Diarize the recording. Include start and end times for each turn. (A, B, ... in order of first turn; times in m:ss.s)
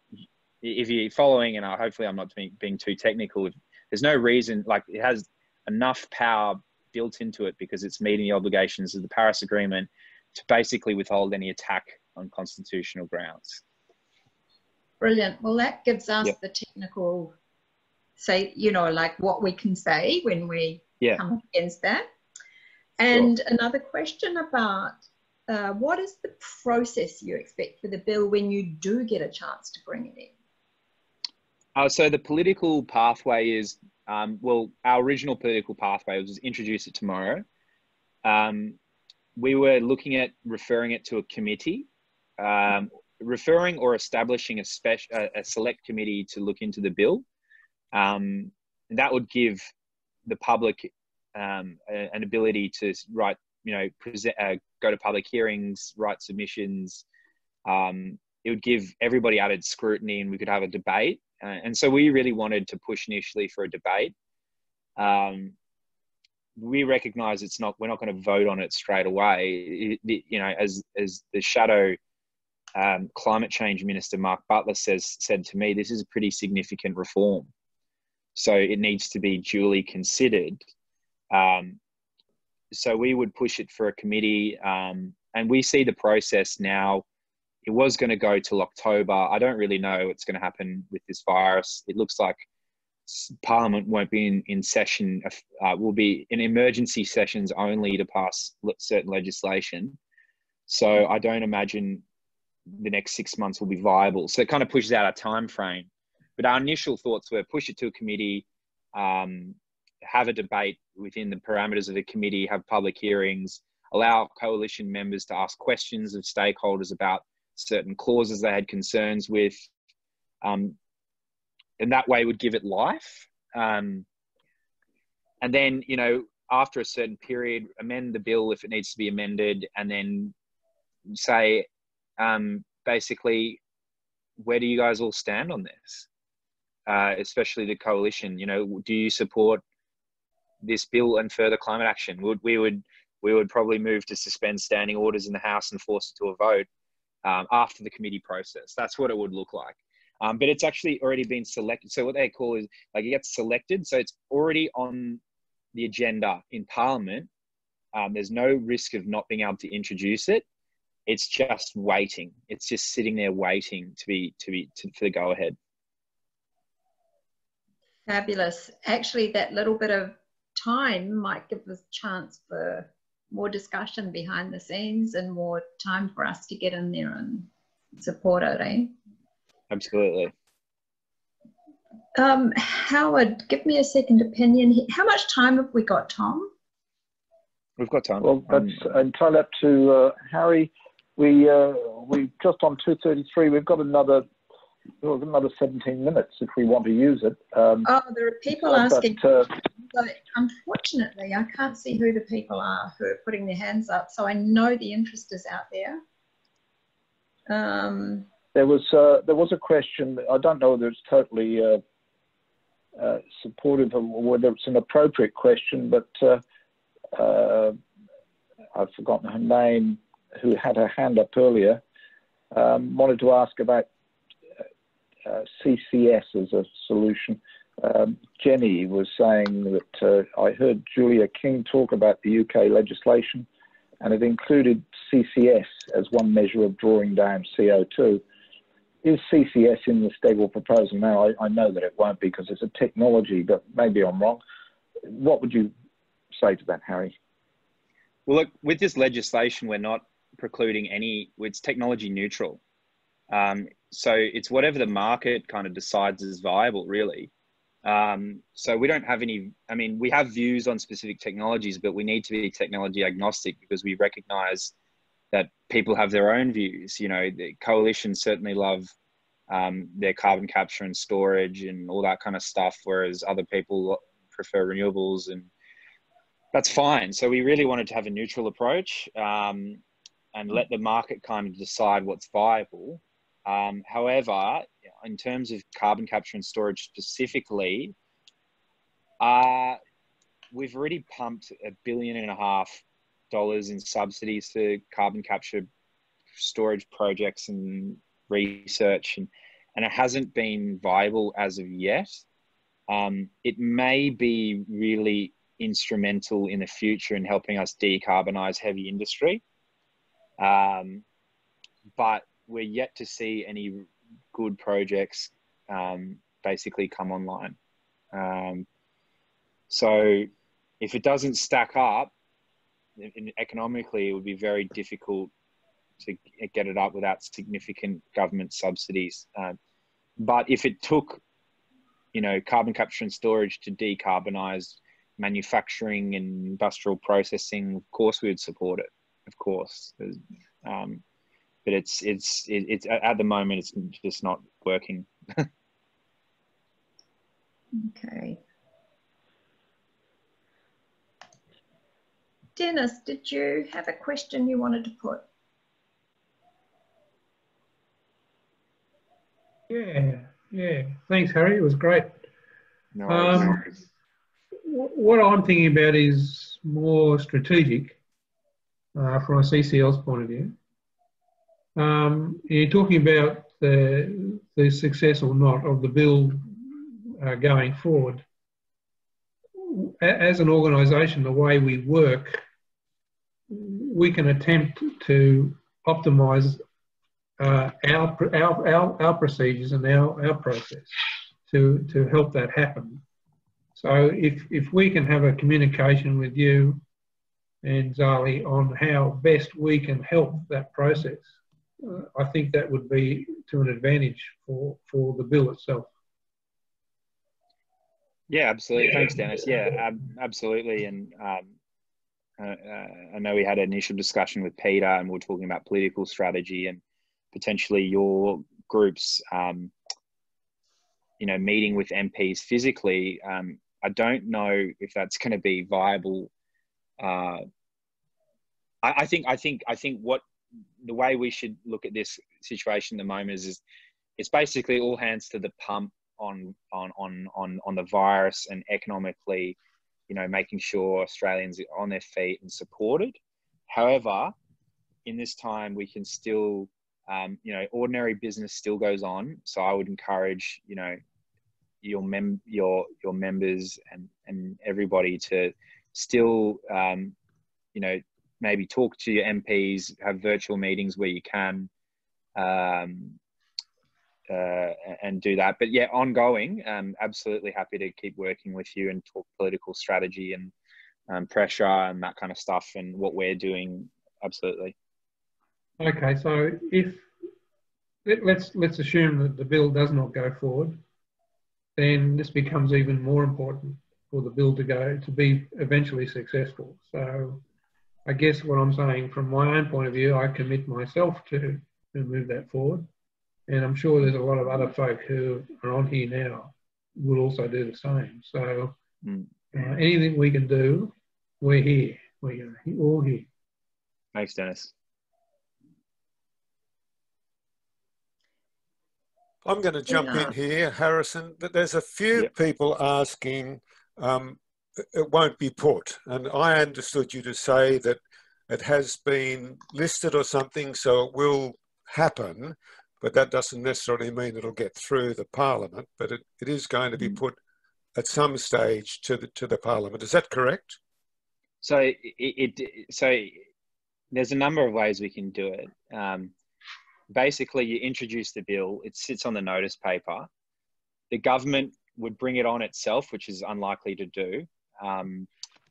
0:00.6-0:13.6 A
0:15.0-0:17.3 B
0:18.2-0:22.1 B
0:23.0-0:30.3 B
0:31.8-0:37.4 A
0:38.2-0:38.8 A
0:39.4-0:41.9 A
0:42.4-0:47.2 A
0:47.9-0:49.6 A
0:50.3-0:57.0 A
0:57.6-1:04.1 A
1:05.0-1:05.6 A
1:06.6-1:12.0 A
1:12.8-1:17.5 A
1:18.4-1:20.6 A
1:21.3-1:21.8 A
1:22.7-1:27.0 A
1:27.6-1:32.4 A
1:33.1-1:40.0 A
1:40.7-1:42.0 A
1:42.8-1:59.6 A
2:00.4-2:00.8 A
2:01.8-2:04.0 A
2:05.4-2:10.3 A
2:11.1-2:11.7 A
2:12.2-2:13.6 A
2:14.4-2:16.1 A
2:16.9-2:19.6 A
2:20.6-2:26.7 A
2:27.2-2:35.2 A
2:35.8-2:37.3 A
2:37.9-2:40.4 A
2:41.1-2:45.6 A
2:48.1-2:58.9 B
2:59.7-3:00.3 A
3:02.2-3:06.5 B
3:07.8-3:08.9 A
3:08.2-3:14.3 C
3:15.0-3:17.9 C
3:17.8-3:26.0 B
3:18.5-3:19.5 C
3:27.5-3:28.3 B
3:28.5-3:31.8 C
3:33.0-3:36.4 C
3:37.1-3:37.8 C
3:38.8-3:41.8 C
3:42.5-3:43.9 C
3:45.3-3:53.5 C
3:54.0-3:58.2 C
3:59.0-4:04.4 C
4:05.0-4:05.7 C
4:06.4-4:07.2 C
4:08.3-4:12.6 A
4:13.3-4:17.3 A
4:17.8-4:24.7 A
4:25.3-4:28.9 A
4:29.5-4:35.5 A
4:36.5-4:39.8 A
4:40.3-4:47.9 A
4:49.2-4:49.8 A
4:50.5-4:55.7 A
4:56.4-5:02.2 A
5:02.9-5:09.4 A
5:10.4-5:11.0 A
5:12.0-5:17.6 A
5:18.1-5:18.7 A
5:19.7-5:20.3 A
5:20.8-5:22.1 A
5:23.0-5:25.3 A
5:26.0-5:29.6 A
5:30.2-5:31.2 A
5:32.1-5:41.0 A
5:41.6-5:45.5 A
5:47.7-5:48.4 B
5:52.6-5:55.3 B
5:59.7-6:02.2 D
6:03.0-6:03.8 A
6:03.1-6:03.6 D
6:04.7-6:08.0 D
6:09.0-6:10.6 D
6:11.8-6:18.2 D
6:19.6-6:22.4 D
6:23.5-6:26.6 D
6:27.4-6:33.0 D
6:33.8-6:36.8 D
6:37.6-6:45.9 D
6:48.3-6:51.5 A
6:52.4-6:56.8 A
6:57.3-6:59.7 A
7:01.2-7:06.3 A
7:07.0-7:07.4 A
7:08.8-7:10.2 A
7:10.8-7:13.6 A
7:14.2-7:19.6 A
7:20.1-7:24.3 A
7:25.1-7:31.0 A
7:31.8-7:37.2 A
7:37.8-7:41.7 A
7:42.4-7:43.2 A
7:44.3-7:50.5 A
7:51.1-7:54.8 A
7:55.8-7:57.1 D
7:58.0-8:00.8 D
8:01.8-8:07.4 D
8:08.1-8:12.9 D
8:13.5-8:18.8 D
8:19.0-8:19.3 A
8:19.5-8:23.3 D
8:24.2-8:24.7 A
8:29.4-8:34.4 E
8:29.9-8:30.3 B
8:34.9-8:47.4 E
8:48.0-8:50.8 E
8:51.6-8:53.5 A
8:54.1-8:56.3 A
8:57.1-9:00.3 A
9:01.1-9:05.3 A